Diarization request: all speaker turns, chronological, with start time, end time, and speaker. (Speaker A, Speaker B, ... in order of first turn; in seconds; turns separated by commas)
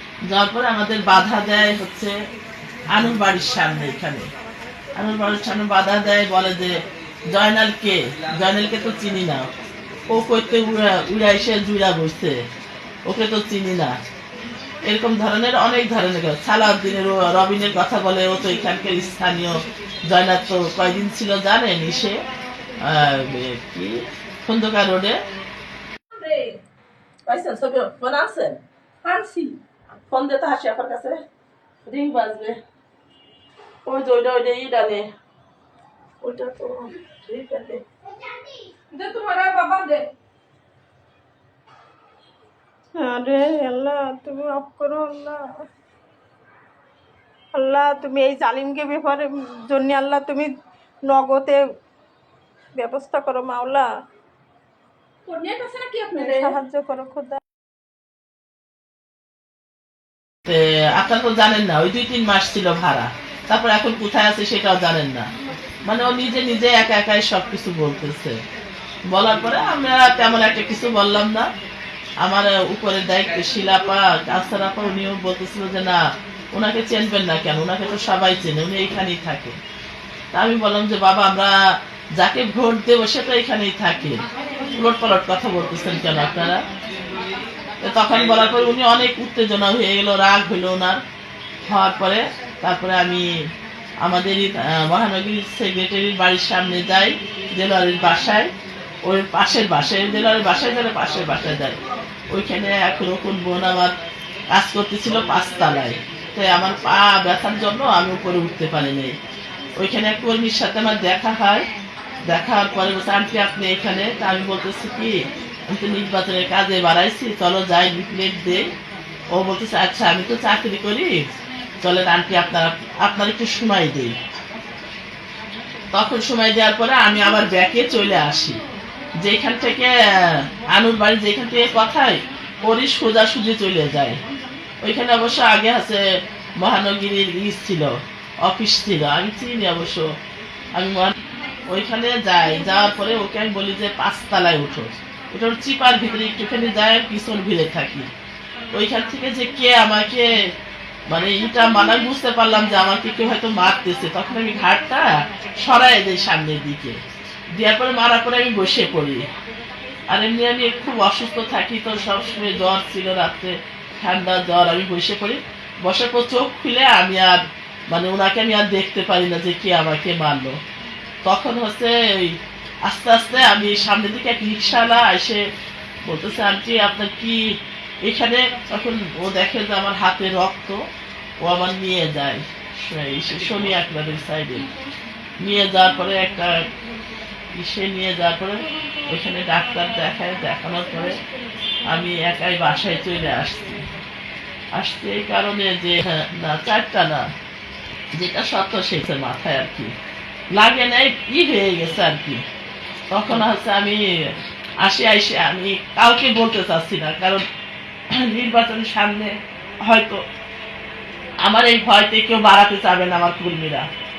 Speaker A: 0.3-2.1, Speaker A: 2.9-4.3, Speaker A: 4.9-9.5, Speaker A: 10.1-12.4, Speaker A: 13.1-13.9, Speaker A: 14.8-22.2, Speaker A: 22.8-25.2, Speaker B: 26.2-26.6, Speaker A: 27.3-28.6, Speaker B: 29.0-29.6, Speaker A: 30.1-31.2, Speaker A: 31.9-32.6, Speaker A: 33.8-35.0, Speaker A: 36.2-37.8, Speaker B: 38.9-40.1, Speaker C: 43.0-45.5, Speaker C: 47.5-50.5, Speaker C: 51.1-51.6, Speaker C: 52.7-53.9, Speaker B: 55.2-56.5, Speaker C: 56.1-57.4, Speaker A: 60.5-65.3, Speaker A: 65.8-68.4, Speaker A: 69.1-71.5, Speaker A: 72.2-79.6, Speaker A: 80.3-81.5, Speaker A: 82.1-84.2, Speaker A: 84.8-86.6, Speaker A: 87.8-91.0, Speaker A: 91.7-93.3, Speaker A: 94.0-98.5, Speaker A: 99.0-101.8, Speaker A: 102.3-103.9, Speaker A: 104.5-109.1, Speaker A: 109.8-111.7, Speaker A: 112.2-118.7, Speaker A: 119.3-121.2, Speaker A: 121.8-124.2, Speaker A: 125.9-128.6, Speaker A: 129.2-134.2, Speaker A: 134.8-136.0, Speaker A: 136.6-140.1, Speaker A: 140.8-141.1, Speaker A: 141.7-148.1, Speaker A: 148.7-150.5, Speaker A: 151.1-157.0, Speaker A: 157.5-159.3, Speaker A: 160.1-170.6, Speaker A: 171.2-175.4, Speaker A: 176.0-180.8, Speaker A: 181.4-184.7, Speaker A: 185.4-186.7, Speaker A: 187.5-191.2, Speaker A: 191.8-193.8, Speaker A: 194.7-197.3, Speaker A: 198.1-199.9, Speaker A: 200.5-202.4, Speaker A: 203.1-207.4, Speaker A: 208.1-210.2, Speaker A: 211.4-213.8